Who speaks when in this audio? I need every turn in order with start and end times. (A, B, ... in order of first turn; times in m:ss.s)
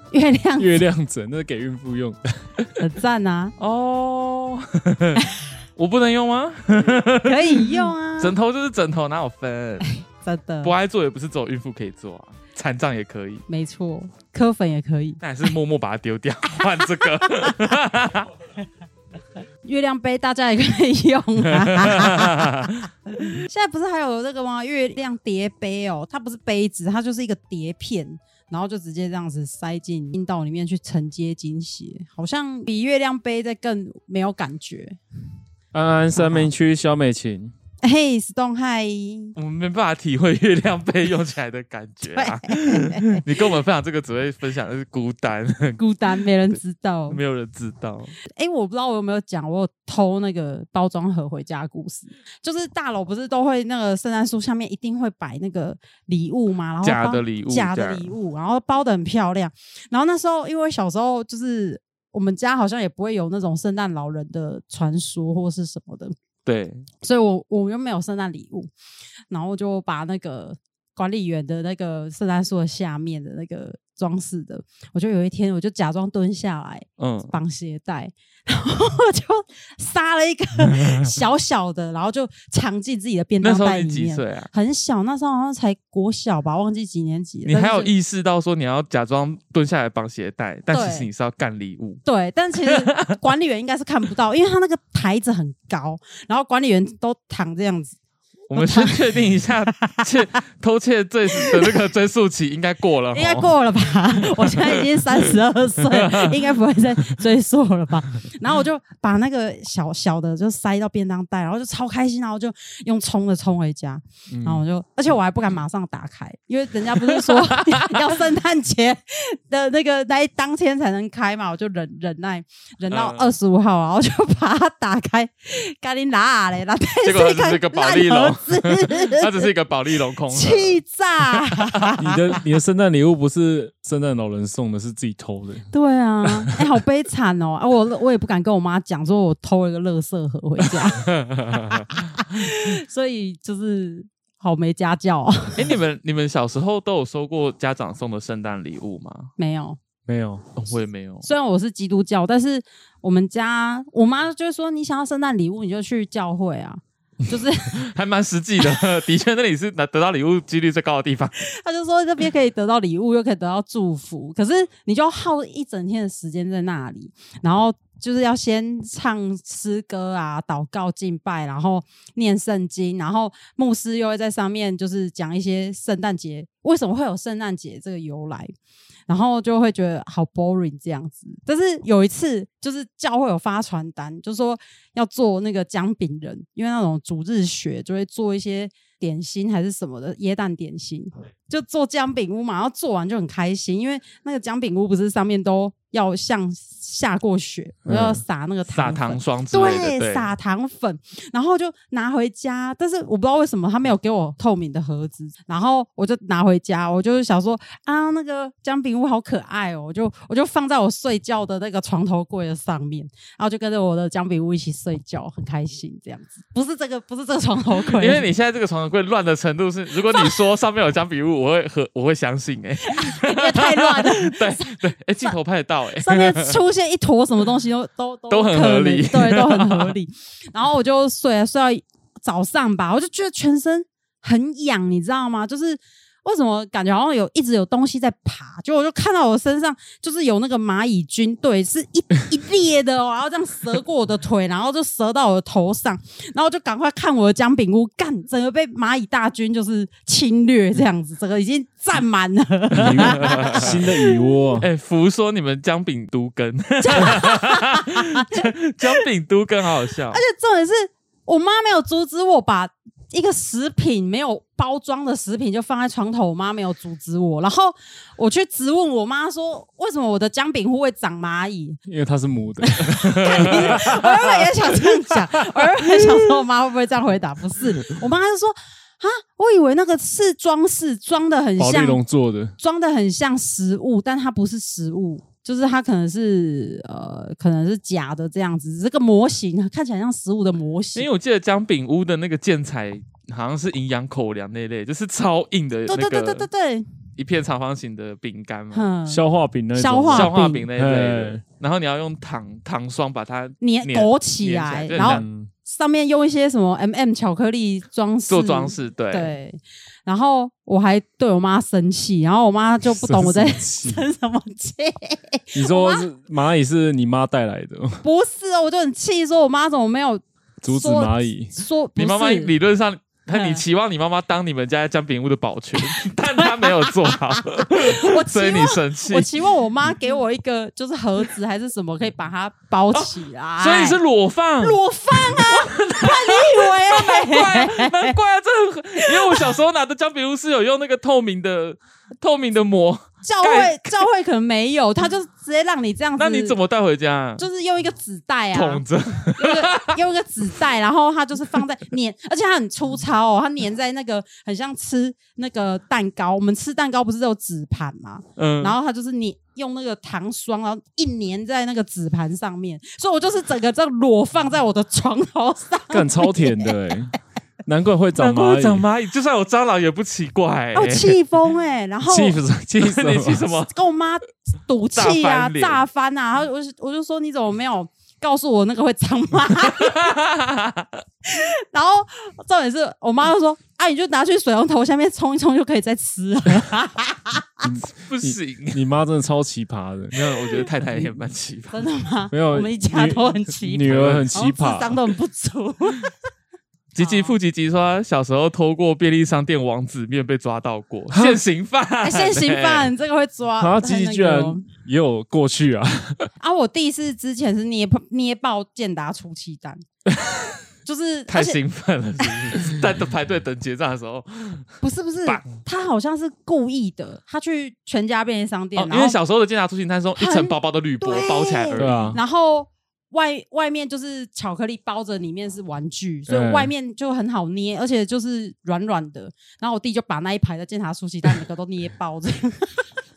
0:00.1-0:00.8 A
0:00.6-0:02.7 B
0:02.8-0:03.6 A
0:03.6-0:09.9 C
0:07.2-0:08.4 A
0:09.8-0:10.7 A
0:10.6-0:13.4 C
0:13.5-0:15.5 A
0:15.2-0:18.3 C
0:16.5-0:17.7 A
0:19.6-0:35.0 A
0:21.5-0:22.8 C
0:35.7-0:37.5 B
0:36.2-0:36.5 A
0:37.8-0:39.4 A
0:39.4-0:48.2 C
0:42.1-0:43.2 A
0:45.8-0:47.2 A
0:48.3-1:06.1 A
0:56.8-0:58.1 C
1:06.4-1:06.9 C
1:07.0-1:08.7 A
1:09.3-1:27.9 A
1:17.0-1:17.3 C
1:23.4-1:24.5 C
1:27.5-1:32.0 C
1:30.7-1:31.1 A
1:32.0-1:38.0 A
1:32.6-1:33.2 C
1:38.5-1:43.6 C
1:38.5-1:40.4 A
1:41.3-1:41.8 A
1:43.1-2:09.5 A
1:44.2-1:45.2 C
1:45.8-1:46.5 C
1:57.3-1:58.0 C
2:02.9-2:03.4 C
2:07.0-2:11.9 C
2:10.3-2:12.2 A
2:12.0-2:15.7 B
2:15.7-2:21.1 A
2:16.3-2:16.6 B
2:21.0-2:22.0 C
2:22.1-2:25.8 A
2:25.6-2:29.3 C
2:29.4-2:29.8 A
2:30.1-2:30.4 B
2:30.6-2:31.3 C
2:31.2-2:37.8 A
2:37.7-2:41.3 C
2:41.4-2:58.5 A
2:59.1-3:38.3 A
3:17.9-3:18.2 B
3:18.7-3:20.3 C
3:37.8-3:46.6 C
3:40.1-3:40.4 A
3:42.8-3:45.3 A
3:46.0-4:14.2 A
3:48.3-3:49.9 C
4:12.7-4:14.7 B
4:13.0-4:13.8 C
4:14.6-4:20.2 C
4:16.8-4:19.0 A
4:20.1-4:31.8 A
4:31.9-4:36.2 B
4:32.6-4:42.0 A
4:33.0-4:33.8 C
4:41.6-4:42.6 B
4:42.6-4:51.1 A
4:51.0-4:56.5 C
4:55.9-4:56.9 A
4:57.2-4:58.9 C
4:58.7-4:59.2 A
4:59.1-5:01.4 B
4:59.8-5:00.7 A
5:00.1-5:05.2 C
5:03.6-5:16.0 A
5:05.0-5:05.5 B
5:08.3-5:09.3 C
5:12.8-5:14.1 B
5:15.5-5:18.0 B
5:18.0-5:22.6 A
5:20.6-5:21.5 B
5:22.0-5:29.3 C
5:23.3-5:23.6 A
5:25.8-5:34.0 A
5:32.9-5:44.1 C
5:34.6-5:38.2 A
5:39.0-5:39.6 A
5:43.2-5:46.6 A
5:46.2-5:47.4 C
5:47.4-6:06.8 A
5:48.5-5:50.0 C
5:58.4-5:58.8 C
6:05.9-6:08.9 B
6:08.2-6:11.2 C
6:10.8-6:12.4 A
6:12.1-6:13.5 B
6:12.8-6:13.7 C
6:13.7-6:20.1 A
6:15.0-6:15.8 C
6:19.6-6:21.0 C
6:21.2-6:27.7 A
6:27.6-6:31.2 B
6:27.9-6:28.8 C
6:30.1-6:31.9 C
6:31.7-6:36.1 A
6:32.3-6:35.0 B
6:33.8-6:34.3 C
6:36.9-6:42.9 C
6:37.0-6:37.4 A
6:41.1-6:41.4 B
6:42.0-6:44.7 A
6:43.6-6:46.3 B
6:46.4-6:49.8 A
6:50.2-6:50.5 B
6:50.9-6:51.6 A
6:51.3-6:55.5 C
6:54.8-6:59.2 A
6:58.8-7:02.2 C
7:00.2-7:12.8 A
7:01.8-7:02.2 B
7:06.3-7:06.7 B